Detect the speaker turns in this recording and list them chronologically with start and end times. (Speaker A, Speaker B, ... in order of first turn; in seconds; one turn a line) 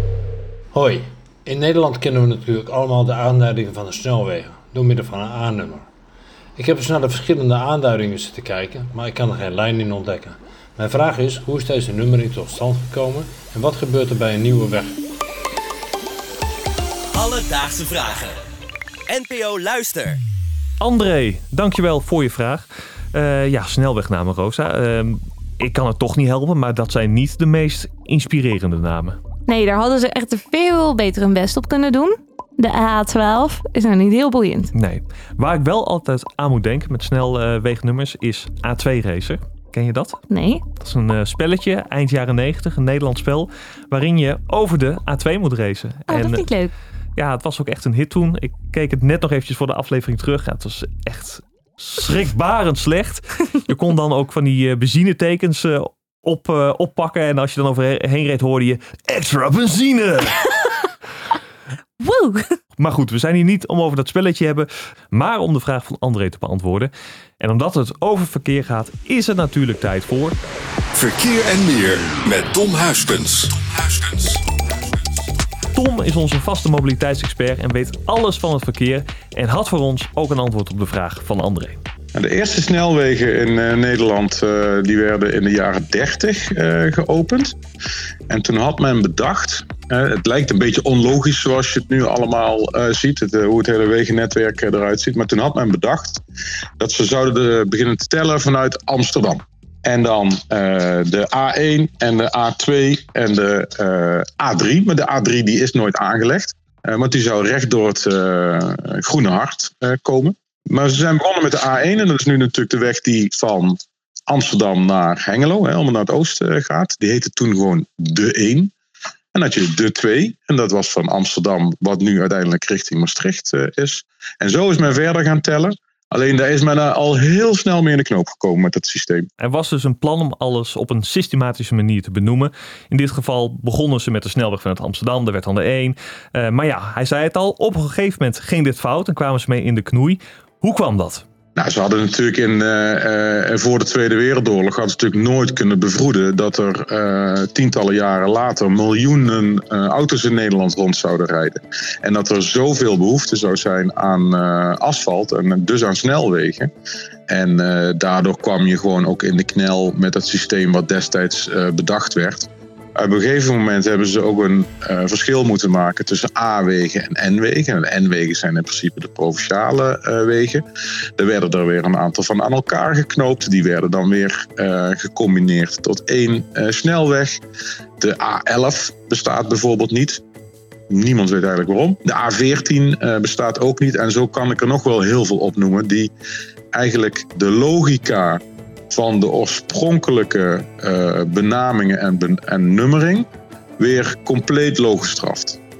Speaker A: 0.7-5.8
Speaker A: 6.6-14.9
Speaker B: 17.1-18.3
Speaker B: 19.1-20.2
Speaker C: 20.8-29.2
Speaker D: 29.5-34.7
Speaker C: 34.7-40.2
Speaker D: 40.3-40.6
Speaker C: 40.7-46.5
Speaker D: 46.1-46.7
Speaker C: 47.1-60.5
Speaker D: 62.0-62.5
Speaker C: 62.8-70.3
Speaker E: 70.9-74.4
Speaker C: 75.7-81.8
Speaker F: 82.1-87.5
Speaker F: 88.3-96.2
Speaker F: 96.8-118.7
Speaker F: 119.3-129.3
Speaker C: 129.4-141.2
Speaker F: 141.6-156.7
Speaker F: 157.3-170.6
Speaker F: 171.2-177.4
Speaker F: 178.0-180.2
Speaker F: 180.9-186.1
Speaker F: 186.7-188.4
Speaker F: 188.9-193.2
Speaker F: 193.8-195.6